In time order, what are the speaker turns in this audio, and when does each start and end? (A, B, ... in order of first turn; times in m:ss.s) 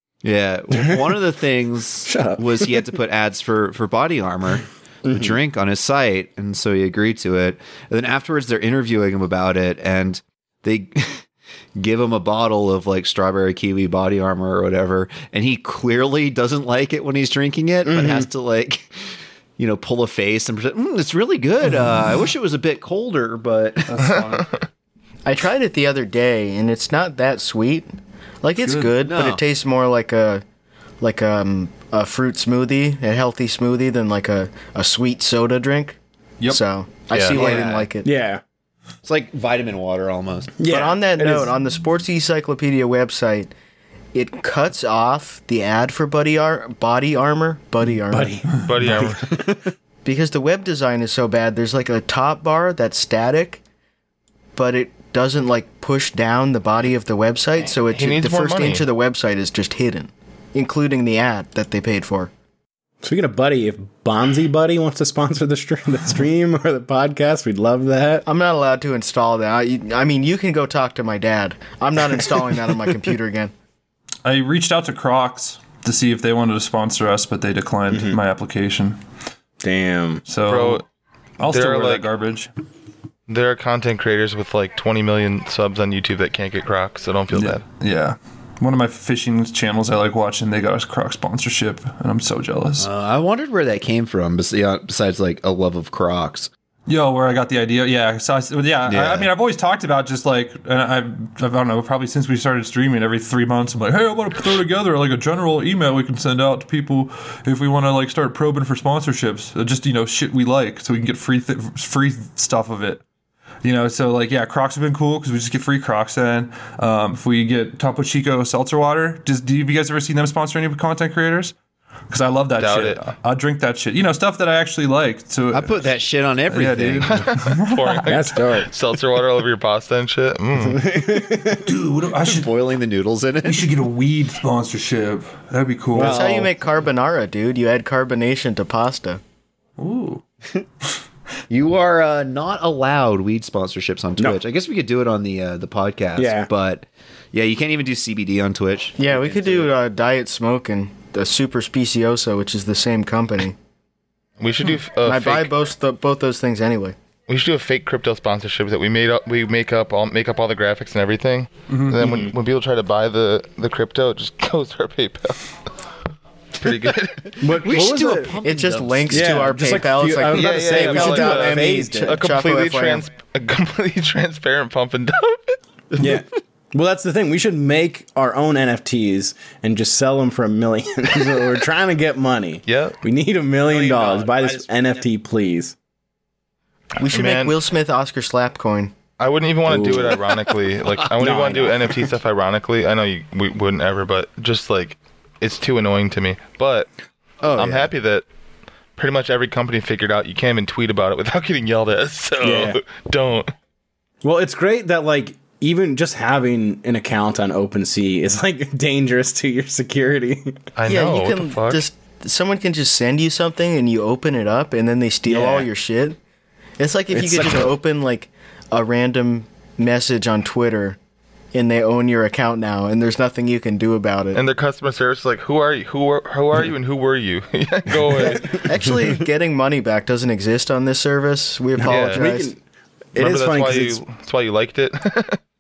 0:00.2-0:19.0 A
0:00.7-0:01.2 B
0:02.1-0:02.9 B
0:05.0-0:05.4 B
0:17.8-0:18.3 B
0:19.6-0:24.2 A
0:23.9-0:24.5 C
0:25.3-0:27.9 D
0:28.4-0:30.4 D
0:28.6-0:29.0 C
0:29.0-0:29.4 A
0:31.0-0:38.1 D
0:37.3-0:37.9 A
0:37.5-0:38.4 B
0:39.0-0:40.6 A
0:40.6-0:41.5 B
0:40.7-0:43.5 D
0:44.1-0:48.4 D
0:48.1-0:49.2 B
0:48.6-0:49.2 E
0:49.3-0:49.7 A
0:50.0-0:53.6 D
0:54.6-1:02.3 D
0:57.9-0:58.8 E
1:03.0-1:08.2 B
1:08.2-1:13.5 D
1:14.2-1:19.0 C
1:17.9-1:18.2 B
1:19.6-1:20.2 B
1:20.3-1:20.8 C
1:20.5-1:20.8 E
1:21.4-1:22.5 C
1:21.5-1:22.1 E
1:23.3-1:27.6 E
1:27.3-1:32.9 C
1:32.8-1:36.5 A
1:36.9-1:53.0 C
1:38.9-1:39.3 A
1:53.6-2:01.6 C
2:02.1-2:05.9 C
2:02.6-2:03.1 E
2:05.5-2:07.3 A
2:06.5-2:08.2 C
2:07.1-2:10.8 E
2:08.1-2:08.7 B
2:10.6-2:11.7 B
2:11.6-2:12.5 C
2:12.2-2:13.8 A
2:13.4-2:16.2 C
2:15.9-2:16.5 B
2:16.0-2:19.2 D
2:19.8-2:20.2 C
2:21.5-2:29.7 A
2:26.2-2:26.5 B
2:29.0-2:33.6 D
2:34.4-2:35.5 E
2:35.0-2:37.0 D
2:37.3-2:45.5 E
2:41.7-2:42.0 C
2:42.0-2:42.3 B
2:46.6-2:47.2 E
2:46.7-2:49.6 A
2:47.4-2:48.4 B
2:48.4-2:53.0 D
2:49.1-2:52.2 B
2:50.3-2:55.6 E
2:56.0-3:05.8 B
3:02.7-3:03.0 E
3:03.7-3:04.6 A
3:07.0-3:08.9 D
3:07.0-3:07.6 E
3:09.2-3:16.9 E
3:09.7-3:10.3 B
3:11.2-3:12.0 B
3:17.4-3:17.9 A
3:17.5-3:18.2 E
3:19.0-3:23.5 E
3:22.4-3:22.8 B
3:24.2-3:30.6 B
3:30.8-3:31.8 E
3:30.9-3:36.2 D
3:35.3-3:35.7 B
3:36.8-3:41.0 D
3:37.1-3:37.8 B
3:41.5-3:44.4 D
3:44.3-3:48.6 E
3:48.5-3:52.5 D
3:48.8-3:49.1 A
3:51.8-3:52.6 B
3:51.9-3:52.2 E
3:53.1-3:54.0 B
3:53.2-3:55.4 E